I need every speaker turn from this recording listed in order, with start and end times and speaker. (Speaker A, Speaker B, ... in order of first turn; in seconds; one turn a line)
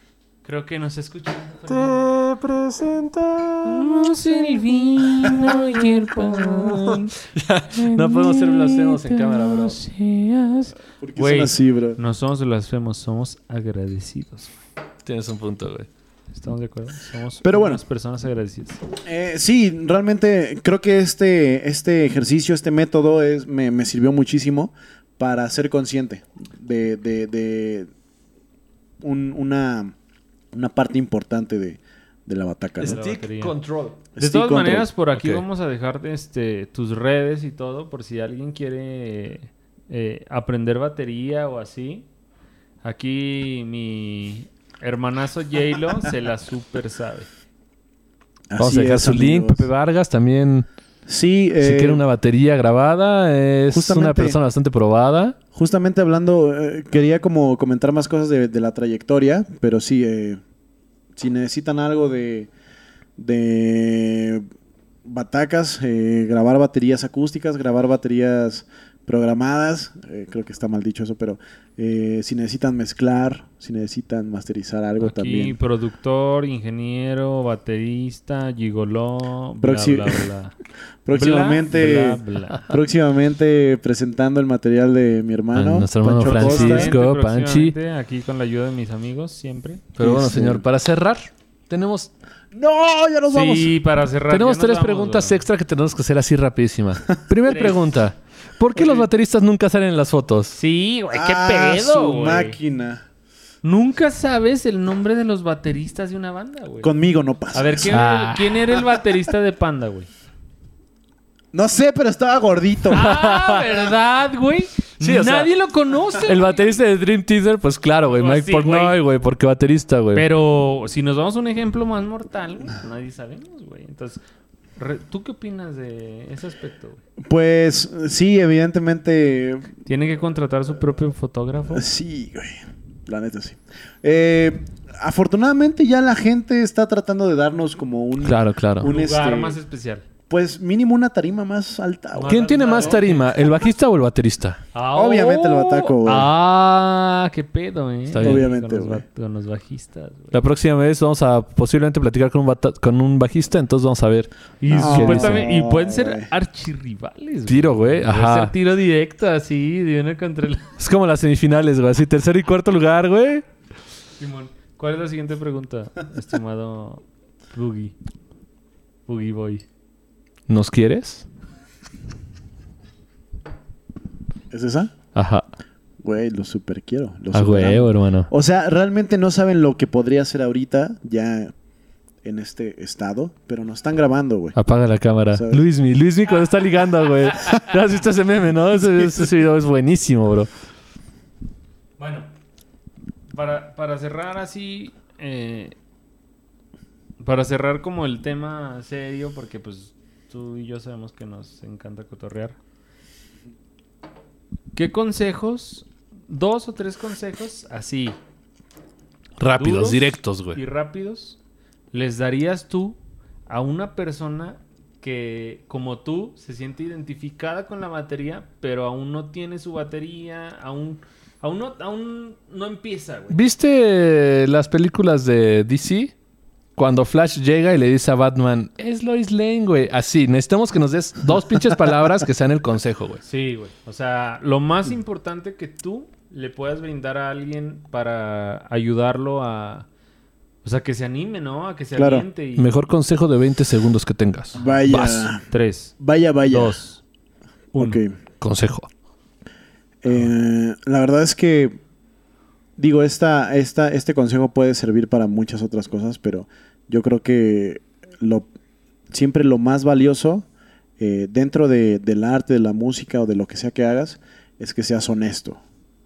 Speaker A: 0.4-2.0
Speaker B: 1.7-9.8
Speaker A: 3.6-7.2
Speaker A: 7.8-14.5
Speaker C: 11.0-12.0
Speaker B: 15.1-15.9
Speaker A: 16.3-18.8
Speaker C: 17.4-17.8
Speaker C: 19.0-27.9
Speaker C: 29.0-29.9
Speaker C: 30.5-33.0
Speaker B: 32.8-34.0
Speaker A: 32.8-33.6
Speaker C: 34.2-34.9
Speaker A: 34.2-42.1
Speaker B: 35.1-35.5
Speaker A: 42.8-47.3
Speaker C: 48.5-49.7
Speaker B: 48.6-50.7
Speaker C: 51.1-52.0
Speaker B: 51.6-55.4
Speaker C: 53.7-54.4
Speaker C: 55.5-60.4
Speaker C: 61.2-62.5
Speaker C: 63.2-64.5
Speaker C: 65.0-75.6
Speaker A: 75.0-80.5
Speaker C: 79.6-80.3
Speaker C: 81.1-86.9
Speaker A: 81.1-82.7
Speaker B: 85.5-87.8
Speaker A: 86.3-89.9
Speaker B: 90.0-92.1
Speaker C: 90.0-90.6
Speaker C: 92.5-93.8
Speaker A: 93.3-95.4
Speaker B: 94.3-100.6
Speaker A: 97.5-98.0
Speaker A: 98.8-99.1
Speaker A: 100.5-102.6
Speaker C: 101.1-103.0
Speaker A: 103.6-106.9
Speaker C: 106.8-108.0
Speaker A: 107.5-110.1
Speaker B: 107.9-108.8
Speaker C: 111.5-113.1
Speaker A: 112.9-116.8
Speaker B: 112.9-113.9
Speaker B: 115.0-115.5
Speaker B: 116.2-120.3
Speaker A: 118.1-119.0
Speaker A: 120.1-124.2
Speaker A: 124.8-127.0
Speaker C: 127.2-129.7
Speaker A: 129.9-131.8
Speaker C: 131.7-139.6
Speaker B: 138.2-138.9
Speaker A: 138.8-140.0
Speaker C: 140.3-143.0
Speaker A: 142.2-143.4
Speaker B: 142.2-144.6
Speaker A: 144.7-150.4
Speaker C: 144.9-146.3
Speaker B: 146.1-146.4
Speaker B: 148.1-148.4
Speaker C: 148.2-149.1
Speaker B: 150.3-154.3
Speaker A: 154.6-160.7
Speaker C: 154.7-156.3
Speaker B: 154.8-155.5
Speaker B: 157.5-158.5
Speaker B: 160.8-163.4
Speaker A: 164.2-167.9
Speaker A: 169.1-169.6
Speaker B: 170.5-171.3
Speaker C: 174.5-174.9
Speaker B: 175.2-175.4
Speaker C: 176.0-181.5
Speaker B: 177.3-178.3
Speaker C: 182.2-184.6
Speaker B: 184.6-190.5
Speaker C: 185.3-185.7
Speaker C: 189.0-189.3
Speaker A: 192.0-192.3
Speaker A: 193.3-195.8
Speaker A: 197.2-202.6
Speaker A: 204.8-208.2
Speaker B: 209.4-210.6
Speaker A: 209.6-211.4
Speaker A: 211.9-223.4
Speaker B: 223.3-226.1
Speaker B: 226.8-233.2
Speaker A: 233.3-239.9
Speaker A: 240.6-242.8
Speaker C: 242.0-242.3
Speaker B: 242.6-245.3
Speaker C: 244.6-245.4
Speaker A: 245.5-245.9
Speaker C: 246.0-246.8
Speaker A: 246.5-247.0
Speaker C: 247.7-248.2
Speaker B: 248.4-248.9
Speaker C: 250.0-251.8
Speaker C: 252.8-258.5
Speaker C: 259.1-260.5
Speaker C: 261.0-265.6